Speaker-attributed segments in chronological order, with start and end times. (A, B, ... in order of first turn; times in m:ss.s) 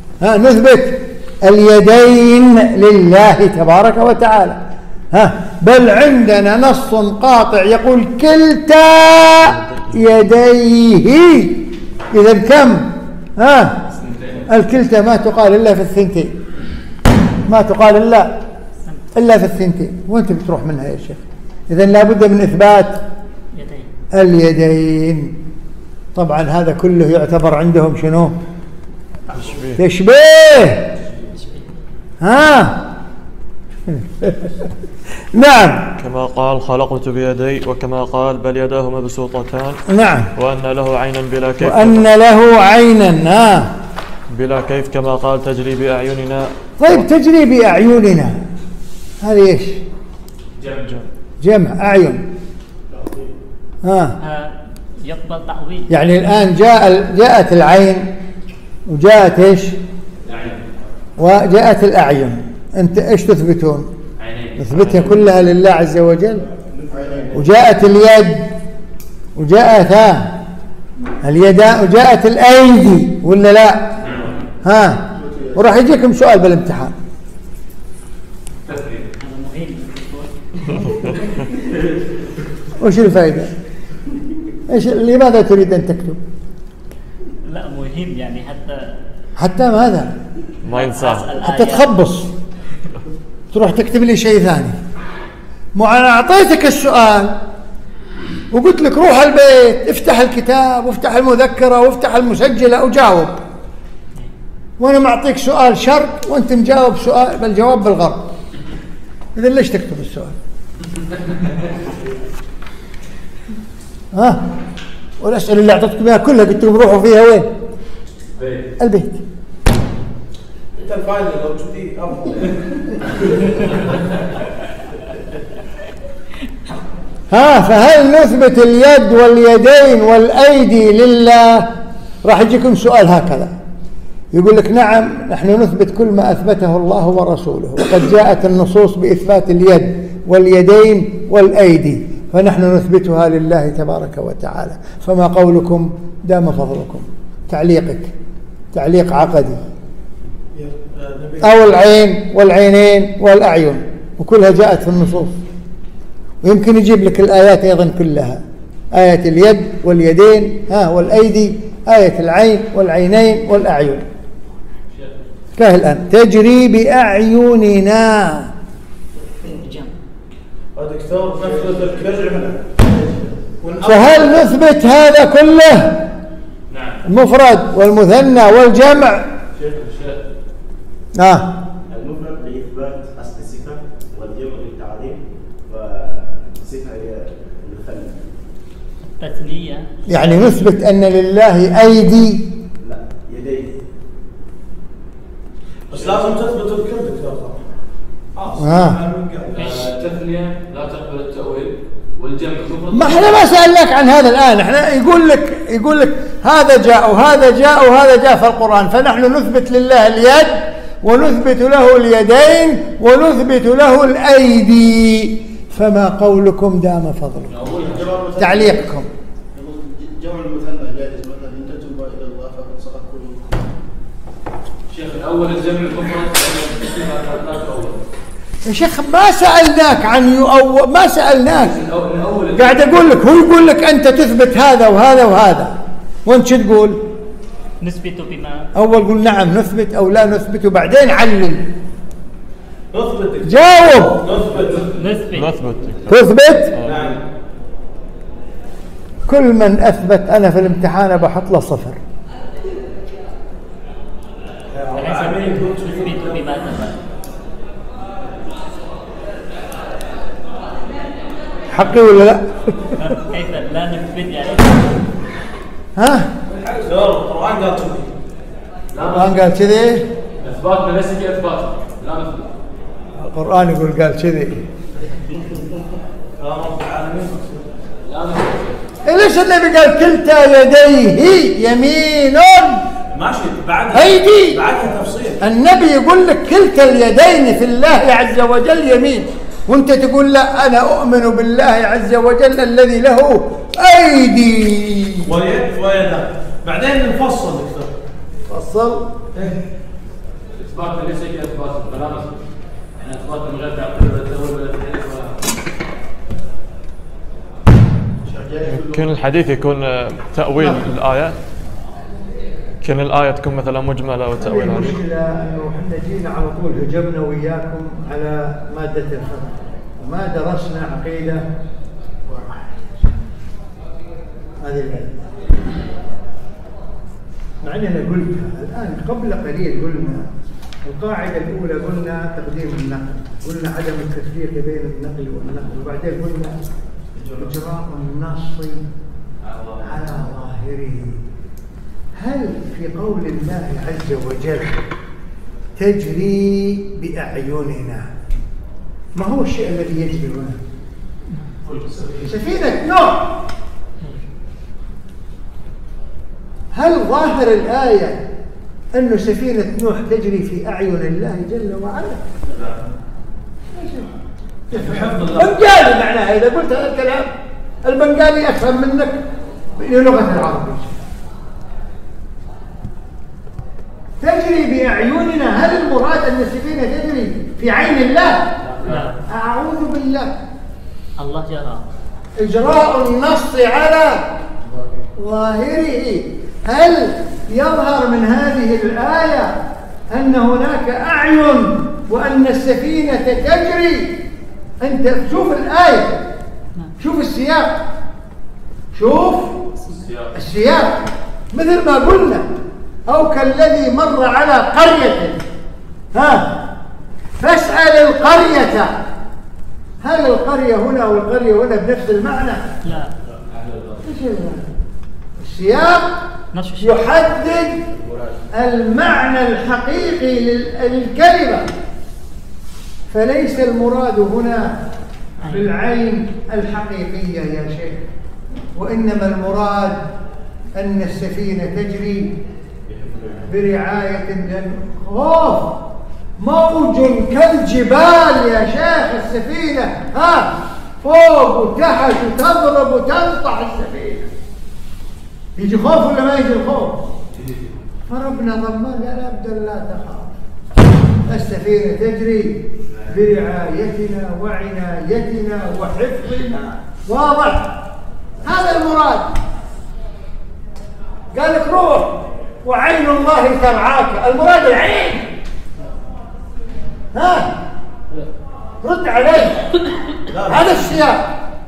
0:00.2-0:04.6 A
0:05.1-0:13.8 A
0:09.4-0:10.1 B
0:13.9-0:14.5 C
0:14.5-0:16.3 A
0:17.5-0:18.4 A
0:19.1-0:23.0 A
0:23.6-0:23.9 D
0:24.1-0:25.4 A
0:26.1-0:28.3 A
0:29.3-0:29.8 B
0:29.8-0:30.9 A
0:31.4-0:31.7 D
0:32.2-0:32.9 A
0:33.9-0:34.6 A
0:35.3-0:35.8 A
0:36.0-0:39.8 B
0:39.9-0:40.3 A
0:40.4-0:42.0 B
0:41.6-0:43.7 A
0:44.3-0:47.0 B
0:46.8-0:48.4 A
0:49.2-0:49.8 A
0:50.6-0:51.0 C
0:51.4-0:52.2 A
0:52.9-0:53.3 E
0:53.8-0:54.2 A
0:54.2-0:55.9 D
0:55.9-0:58.1 A
0:58.9-0:59.8 A
1:00.2-1:00.7 C
1:01.2-1:03.9 A
1:04.2-1:05.1 C
1:04.6-1:06.4 A
1:06.7-1:07.4 E
1:07.3-1:08.5 A
1:09.4-1:10.3 A
1:11.2-1:14.0 A
1:14.0-1:14.4 C
1:14.6-1:16.9 A
1:15.2-1:15.6 E
1:18.6-1:19.1 C
1:19.2-1:21.3 D
1:22.8-1:23.5 A
1:24.7-1:26.2 A
1:27.4-1:28.9 D
1:29.4-1:30.1 A
1:30.6-1:31.3 B
1:30.7-1:31.9 D
1:31.4-1:32.3 A
1:33.5-1:34.8 A
1:35.8-1:37.4 A
1:38.5-1:43.4 A
1:44.8-1:48.3 A
1:49.4-1:50.3 A
1:54.1-1:54.4 A
1:55.2-1:57.5 A
1:58.3-1:58.7 C
1:58.8-1:59.2 A
2:00.8-2:03.8 F
2:07.3-2:11.7 A
2:12.2-2:13.5 A
2:14.3-2:28.1 A
2:28.7-2:29.6 A
2:30.5-2:31.7 F
2:31.4-2:35.4 A
2:36.4-2:38.4 A
2:38.9-2:44.0 A
2:45.6-2:48.5 A
2:49.4-2:49.9 D
2:50.8-2:52.6 F
2:51.4-2:53.4 E
2:53.6-2:54.5 F
2:53.8-2:56.0 A
2:56.7-2:57.0 C
2:57.0-2:59.3 A
2:59.5-3:00.2 C
3:01.2-3:01.5 A
3:01.9-3:08.2 E
3:09.2-3:09.8 D
3:10.1-3:12.5 A
3:12.8-3:13.8 E
3:15.9-3:17.6 F
3:16.0-3:16.3 C
3:18.3-3:19.9 F
3:18.6-3:19.0 A
3:19.5-3:23.4 C
3:22.9-3:37.6 A
3:37.5-3:38.3 C
3:37.7-3:38.8 E
3:38.4-3:39.1 A
3:39.6-3:43.6 E
3:44.9-3:48.0 C
3:48.6-3:51.8 A
3:51.6-3:53.1 C
3:52.5-3:55.7 A
3:56.2-3:57.0 A
3:57.8-3:58.7 D
3:58.7-4:01.6 A
4:02.9-4:04.9 F
4:03.4-4:04.2 A
4:04.8-4:05.5 D
4:05.3-4:07.1 B
4:06.1-4:06.7 A
4:06.8-4:07.2 F
4:09.3-4:12.0 A
4:14.7-4:16.6 F
4:14.9-4:17.0 D
4:21.7-4:22.9 A
4:23.0-4:25.0 D
4:26.0-4:26.3 A
4:26.8-4:28.1 F
4:28.9-4:29.5 C
4:29.1-4:30.1 A
4:30.4-4:32.5 C
4:33.2-4:34.6 A
4:36.4-4:37.6 F
4:38.0-4:38.8 C
4:39.0-4:42.9 A
4:43.1-4:45.4 F
4:43.9-4:44.6 A
4:45.4-4:55.3 A
4:55.2-4:57.9 F
4:58.5-4:59.1 A
5:00.6-5:02.3 C
5:03.0-5:05.4 C
5:08.2-5:09.1 E
5:08.6-5:11.4 B
5:10.6-5:10.8 A
5:12.8-5:15.0 B
5:14.4-5:21.4 A
5:24.6-5:25.2 A
5:27.6-5:30.2 A
5:30.8-5:36.6 A
5:37.1-5:37.5 C
5:37.4-5:38.8 A
5:39.4-5:40.3 C
5:39.8-5:41.2 A
5:42.2-5:44.8 A
5:45.8-5:48.1 A
5:49.1-5:50.6 A
5:51.7-5:52.2 C
5:52.2-5:53.4 A
5:56.7-5:58.2 A
5:58.9-6:02.2 A
6:03.7-6:04.1 A
6:04.7-6:07.3 A
6:04.7-6:05.6 F
6:07.8-6:09.2 A
6:09.8-6:10.9 A
6:14.2-6:18.6 A
6:18.6-6:19.1 C
6:18.9-6:19.2 D
6:19.3-6:20.4 A
6:21.2-6:21.8 D
6:22.4-6:24.2 A
6:25.2-6:29.6 A
6:30.1-6:34.2 A
6:34.8-6:36.2 A
6:37.0-6:37.8 A
6:38.9-6:39.6 A
6:39.9-6:40.3 C
6:40.3-6:42.5 A
6:43.1-6:45.4 A
6:46.1-6:46.7 A
6:47.4-6:49.0 A
6:50.0-6:52.7 A
6:52.8-6:53.1 D
6:53.4-6:54.0 C
6:54.0-6:54.6 A
6:55.4-6:56.1 A
6:56.5-6:57.1 D
6:56.8-6:57.8 A
6:57.9-6:58.2 E
6:58.5-7:01.7 A
7:03.1-7:04.8 A
7:05.4-7:08.0 A
7:08.7-7:10.1 A
7:10.8-7:12.4 A
7:12.9-7:13.5 C
7:13.5-7:15.8 A
7:16.4-7:24.3 A
7:25.6-7:27.1 A
7:27.4-7:27.7 C
7:28.1-7:30.3 A
7:31.2-7:37.8 A
7:38.4-7:39.3 A
7:41.3-7:45.3 A
7:47.1-7:47.5 A
7:48.8-7:49.8 A
7:50.3-7:50.9 F
7:50.5-7:51.3 A